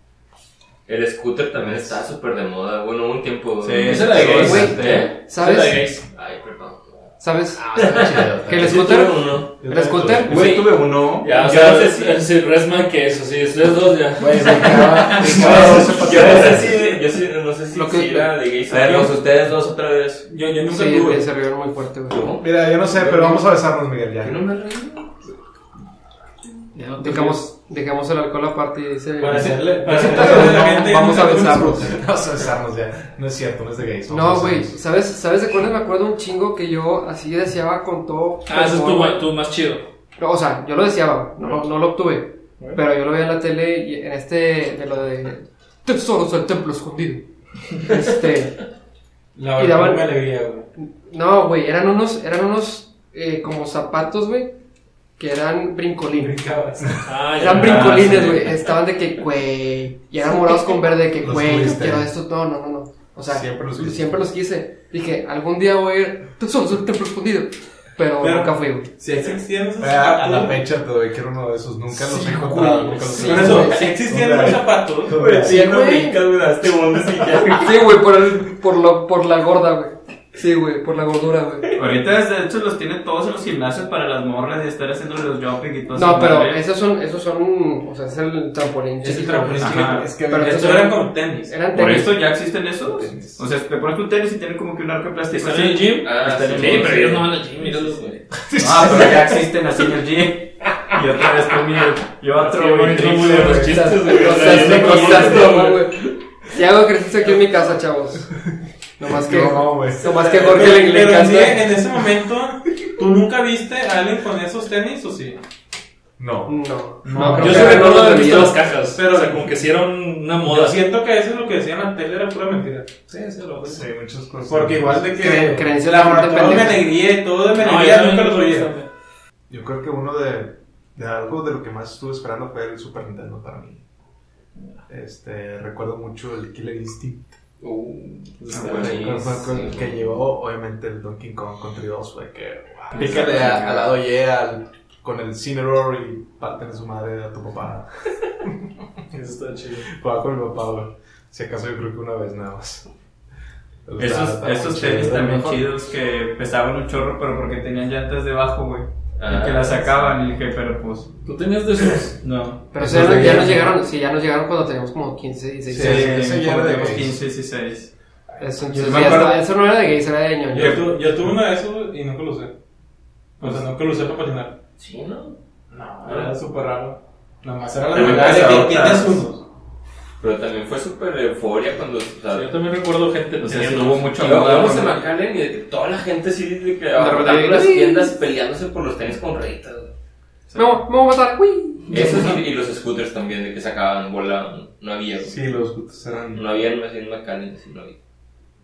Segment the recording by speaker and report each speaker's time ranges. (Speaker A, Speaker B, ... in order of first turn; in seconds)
Speaker A: 0.8-5.1, 6.1-7.1, 7.7-9.6, 10.3-12.2, 14.4-19.2, 22.1-23.4, 24.2-25.1, 75.1-78.0, 96.0-98.2, 104.0-105.7, 137.6-140.0, 143.0-143.6, 159.2-160.1, 174.8-175.3, 180.2-182.5, 184.1-189.9, 191.9-195.4, 196.3-198.0
Speaker B: 1.6-1.9, 7.7-9.0, 9.6-10.5, 15.1-16.7, 22.4-24.4, 29.9-34.8, 61.2-62.1, 63.3-64.2, 69.8-75.6, 89.8-90.6, 92.9-93.4, 98.5-99.4, 109.0-110.1, 116.2-117.8, 123.6-125.4, 129.5-133.8, 134.9-137.3, 138.5-148.1, 149.8-152.9, 153.8-155.6, 162.8-163.7, 165.7-167.2, 195.2-196.4
Speaker C: 3.6-5.1, 10.2-11.3, 14.2-16.7, 18.7-20.3, 57.5-58.4, 81.7-86.6, 89.6-90.1, 91.7-97.2, 98.6-103.9, 138.5-139.1, 142.9-143.8, 154.0-161.1, 162.2-163.7, 165.7-167.9, 168.7-169.4, 170.6-170.8, 177.9-179.2, 183.4-185.0
Speaker D: 3.8-6.0, 11.2-15.8, 26.7-27.4, 38.5-39.9, 57.0-58.4, 95.3-98.2, 102.3-105.8, 117.3-120.8, 123.1-123.8, 127.6-128.9, 149.1-149.9, 161.2-162.2, 182.3-184.2, 191.9-192.4
Speaker E: 4.2-5.9, 7.2-10.3, 17.7-18.3, 20.7-22.3, 27.0-32.0, 34.1-39.3, 40.2-48.6, 49.5-50.1, 50.8-54.5, 55.2-56.4, 57.4-68.9, 72.0-73.8, 75.4-76.2, 77.6-81.7, 85.9-89.7, 90.3-92.2, 103.6-108.3, 109.0-111.7, 116.5-118.6, 125.2-126.8, 162.7-166.1, 168.4-170.8, 186.9-188.1, 190.5-192.4
Speaker F: 20.3-21.3, 29.2-31.8, 49.3-50.7, 56.2-57.0, 68.2-70.6, 73.2-75.2, 89.0-91.6, 110.0-115.4, 117.1-118.0, 118.9-119.6, 120.4-123.0, 124.4-128.7, 168.8-169.1, 170.5-172.5, 173.4-174.6, 175.7-179.4